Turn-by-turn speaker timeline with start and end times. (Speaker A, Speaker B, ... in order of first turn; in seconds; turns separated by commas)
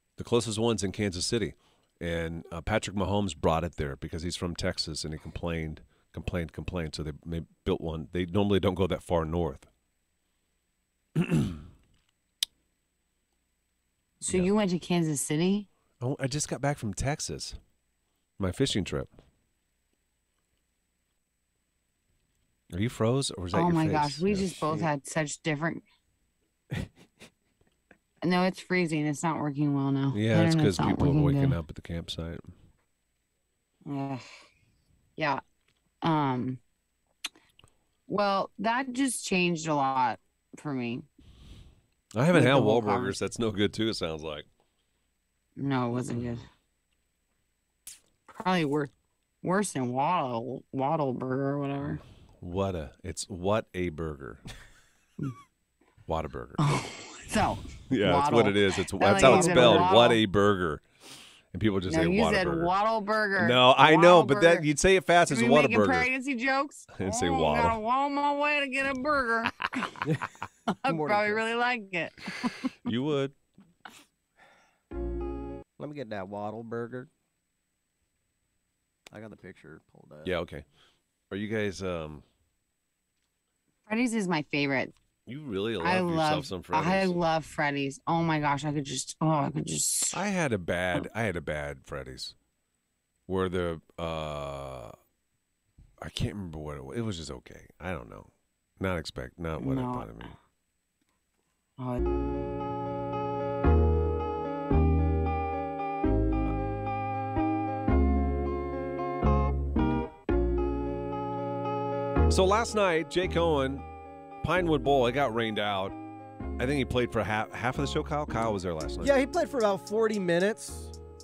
Speaker A: 0.2-9.7, Speaker A: 11.2-11.6, Speaker B: 14.2-15.7, Speaker A: 16.0-17.6, Speaker A: 18.4-19.1, Speaker A: 22.7-24.6, Speaker B: 23.5-25.8, Speaker B: 28.2-31.6, Speaker A: 30.1-32.5, Speaker B: 33.9-34.2, Speaker B: 36.0-36.6, Speaker B: 38.1-41.1, Speaker A: 42.1-44.5, Speaker B: 42.3-43.2, Speaker B: 45.6-46.5, Speaker B: 48.3-48.9, Speaker B: 49.4-52.0, Speaker A: 51.8-54.5, Speaker A: 56.1-56.6, Speaker B: 56.6-60.2, Speaker A: 57.9-60.8, Speaker C: 59.1-59.9, Speaker A: 61.5-62.7, Speaker B: 61.9-64.7, Speaker A: 63.4-66.1, Speaker B: 65.3-69.9, Speaker A: 67.0-67.8, Speaker B: 70.7-72.7, Speaker C: 70.9-71.4, Speaker A: 72.8-73.3, Speaker C: 75.8-77.1, Speaker C: 79.1-80.3, Speaker A: 80.2-80.6, Speaker A: 81.3-82.2, Speaker B: 83.9-84.9, Speaker A: 85.3-87.2, Speaker B: 85.8-90.2, Speaker A: 90.1-92.3, Speaker A: 93.3-95.0, Speaker A: 96.0-100.4, Speaker B: 99.6-100.3, Speaker A: 112.3-113.8, Speaker A: 114.4-116.0, Speaker A: 116.6-119.2, Speaker C: 119.0-120.9